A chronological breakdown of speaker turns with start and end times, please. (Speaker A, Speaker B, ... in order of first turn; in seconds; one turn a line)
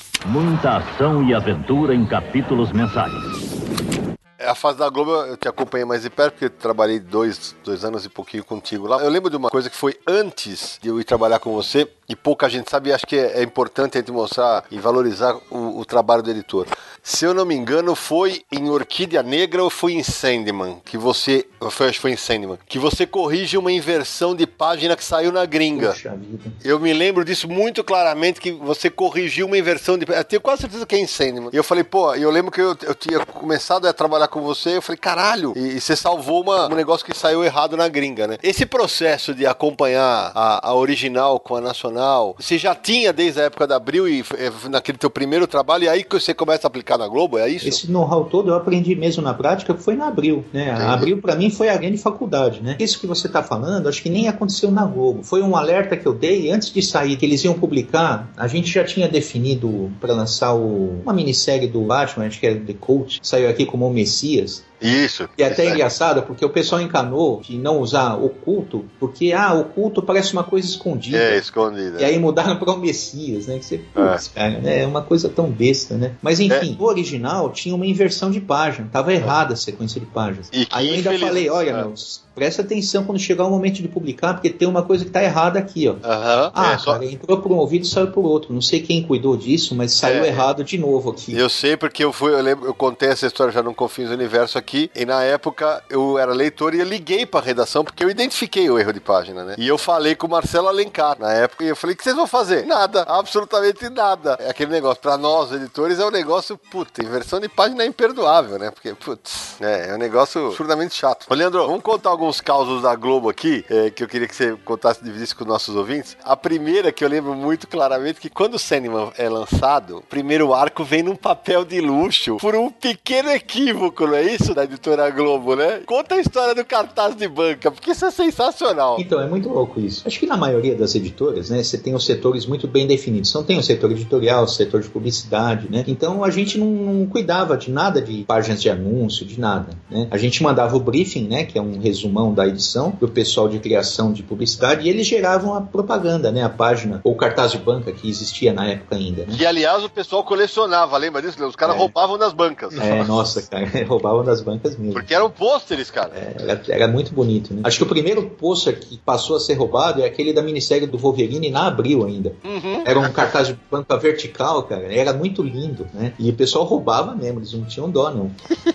Speaker A: 0.3-3.3
Speaker B: 4.4-25.9
Speaker C: 25.7-26.6
Speaker B: 26.6-47.8
Speaker C: 47.6-64.7
Speaker B: 50.8-51.1
Speaker B: 64.8-65.8
Speaker C: 65.4-71.4
Speaker B: 71.1-72.2
Speaker C: 72.0-86.0
Speaker B: 74.0-74.2
Speaker B: 80.5-81.9
Speaker B: 86.0-87.0
Speaker C: 86.5-91.4
Speaker B: 90.0-90.5
Speaker B: 91.3-129.0
Speaker C: 128.9-149.4
Speaker B: 149.3-153.2
Speaker C: 151.6-151.9
Speaker C: 152.8-155.1
Speaker B: 154.9-156.2
Speaker C: 156.1-168.4
Speaker B: 162.4-163.4